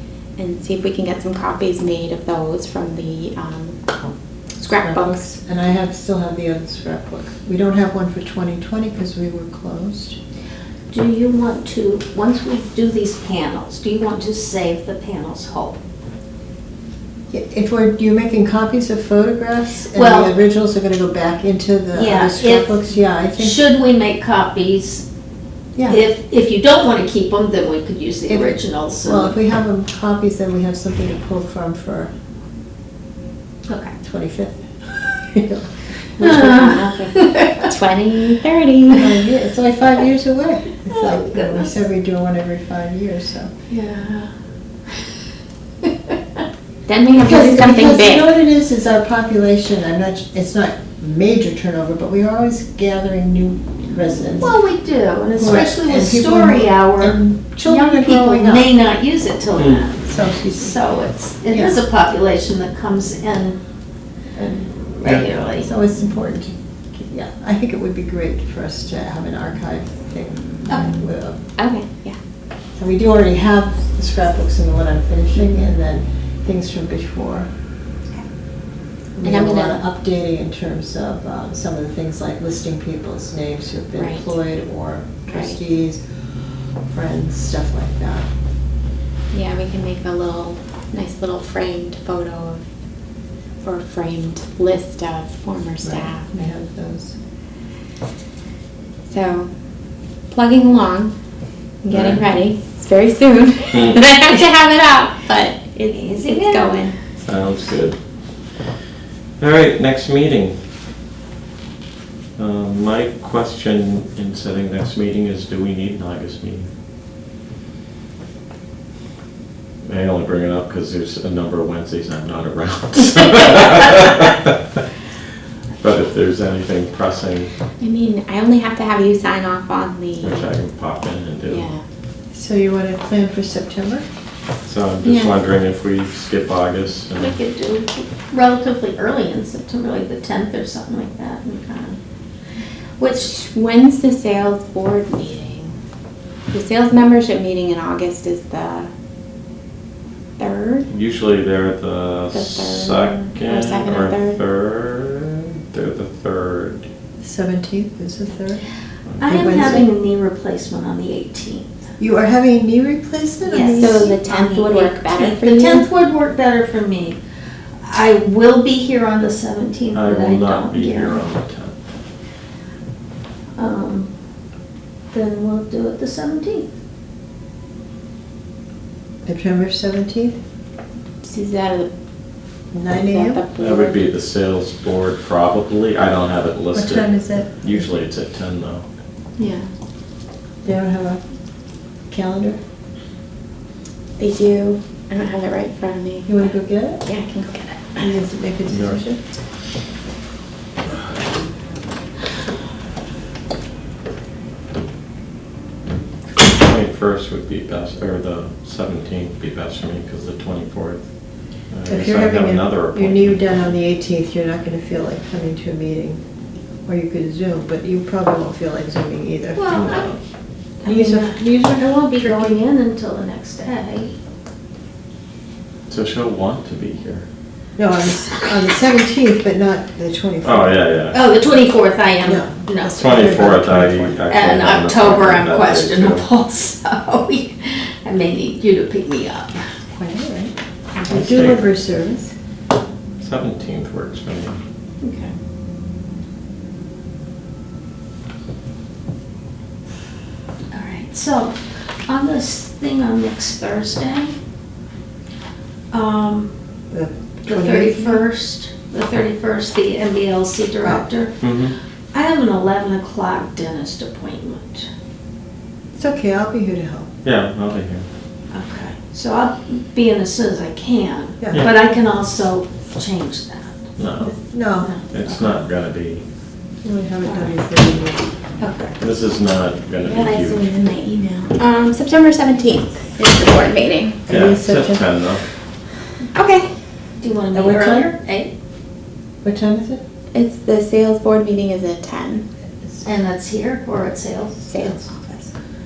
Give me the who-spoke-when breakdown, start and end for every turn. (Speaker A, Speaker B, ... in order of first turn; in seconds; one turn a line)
Speaker A: 0.4-3.8
Speaker A: 4.6-5.3
Speaker B: 4.6-10.2
Speaker C: 10.9-15.8
Speaker B: 17.3-23.6
Speaker C: 19.9-20.4
Speaker C: 21.9-22.8
Speaker C: 23.4-25.0
Speaker B: 25.8-26.0
Speaker C: 25.9-29.4
Speaker B: 28.3-32.1
Speaker C: 33.7-33.9
Speaker B: 34.0-34.6
Speaker B: 35.2-36.5
Speaker A: 36.2-39.0
Speaker C: 36.2-37.7
Speaker B: 38.9-43.5
Speaker C: 40.9-41.7
Speaker C: 43.7-44.3
Speaker C: 45.8-46.1
Speaker A: 46.9-48.3
Speaker B: 47.2-54.5
Speaker C: 54.4-63.6
Speaker B: 55.4-58.7
Speaker D: 59.6-59.9
Speaker B: 60.0-60.8
Speaker B: 61.5-61.8
Speaker B: 64.3-64.7
Speaker C: 65.0-65.7
Speaker B: 65.6-71.4
Speaker C: 70.7-71.0
Speaker A: 71.6-72.2
Speaker B: 72.8-77.5
Speaker B: 79.2-86.0
Speaker A: 79.2-79.8
Speaker A: 84.0-84.3
Speaker A: 85.3-85.6
Speaker B: 86.9-88.3
Speaker A: 89.3-92.6
Speaker A: 93.6-96.3
Speaker B: 95.8-97.1
Speaker A: 99.1-99.5
Speaker A: 100.3-101.1
Speaker A: 101.8-107.0
Speaker D: 101.9-102.2
Speaker D: 103.7-104.0
Speaker C: 105.9-106.8
Speaker D: 107.2-108.0
Speaker D: 109.4-110.5
Speaker D: 112.4-116.7
Speaker D: 119.8-124.8
Speaker D: 125.8-127.5
Speaker A: 127.8-130.5
Speaker D: 130.2-131.6
Speaker A: 131.4-131.8
Speaker B: 132.3-134.0
Speaker D: 134.6-137.3
Speaker A: 135.0-135.3
Speaker C: 137.1-142.0
Speaker C: 143.0-143.3
Speaker A: 143.1-145.7
Speaker A: 146.5-148.9
Speaker A: 150.4-150.9
Speaker D: 150.9-156.9
Speaker A: 152.3-154.4
Speaker B: 157.2-158.6
Speaker D: 159.1-159.8
Speaker C: 159.2-161.7
Speaker B: 159.2-159.8
Speaker B: 162.0-164.1
Speaker C: 163.4-167.2
Speaker A: 163.8-165.8
Speaker C: 167.8-171.2
Speaker D: 169.9-171.8
Speaker C: 173.6-174.1
Speaker C: 175.1-176.7
Speaker B: 179.2-180.4
Speaker A: 181.2-181.9
Speaker B: 182.7-183.4
Speaker A: 182.9-184.1
Speaker D: 183.6-188.9
Speaker B: 186.7-187.9
Speaker A: 189.4-189.7
Speaker B: 190.6-191.2
Speaker B: 192.1-192.6
Speaker A: 194.2-196.4
Speaker B: 196.3-197.0
Speaker A: 197.0-198.1
Speaker B: 198.0-199.2
Speaker D: 198.7-199.0
Speaker D: 206.3-211.1
Speaker D: 211.7-213.7
Speaker B: 211.8-216.2
Speaker B: 216.8-220.1
Speaker C: 219.6-220.1
Speaker D: 219.7-220.2
Speaker C: 220.8-224.1
Speaker B: 220.8-222.6
Speaker D: 225.9-227.2
Speaker B: 227.8-230.8
Speaker D: 230.4-231.2
Speaker C: 231.1-233.2
Speaker B: 232.2-234.2
Speaker D: 232.9-236.3
Speaker C: 234.3-239.6
Speaker B: 239.9-242.3
Speaker D: 241.1-241.6
Speaker D: 243.2-244.6
Speaker C: 245.0-245.3
Speaker C: 250.7-254.4
Speaker C: 255.9-256.5
Speaker B: 256.9-258.2
Speaker C: 257.4-261.4
Speaker D: 261.4-261.7
Speaker C: 262.1-264.9
Speaker B: 265.9-267.1
Speaker D: 267.2-268.1
Speaker C: 268.5-273.8
Speaker B: 271.4-271.6
Speaker D: 274.0-274.3
Speaker B: 274.2-274.9
Speaker C: 274.8-275.6
Speaker D: 275.1-276.2
Speaker B: 276.8-278.3
Speaker C: 277.2-277.5
Speaker C: 278.6-278.9
Speaker D: 279.0-280.6
Speaker A: 280.0-284.2
Speaker B: 284.3-285.0
Speaker D: 284.3-285.4
Speaker A: 286.3-286.7
Speaker C: 287.2-288.5
Speaker B: 287.5-288.1
Speaker B: 289.4-290.0
Speaker A: 290.3-292.4
Speaker C: 293.0-295.0
Speaker A: 294.7-295.5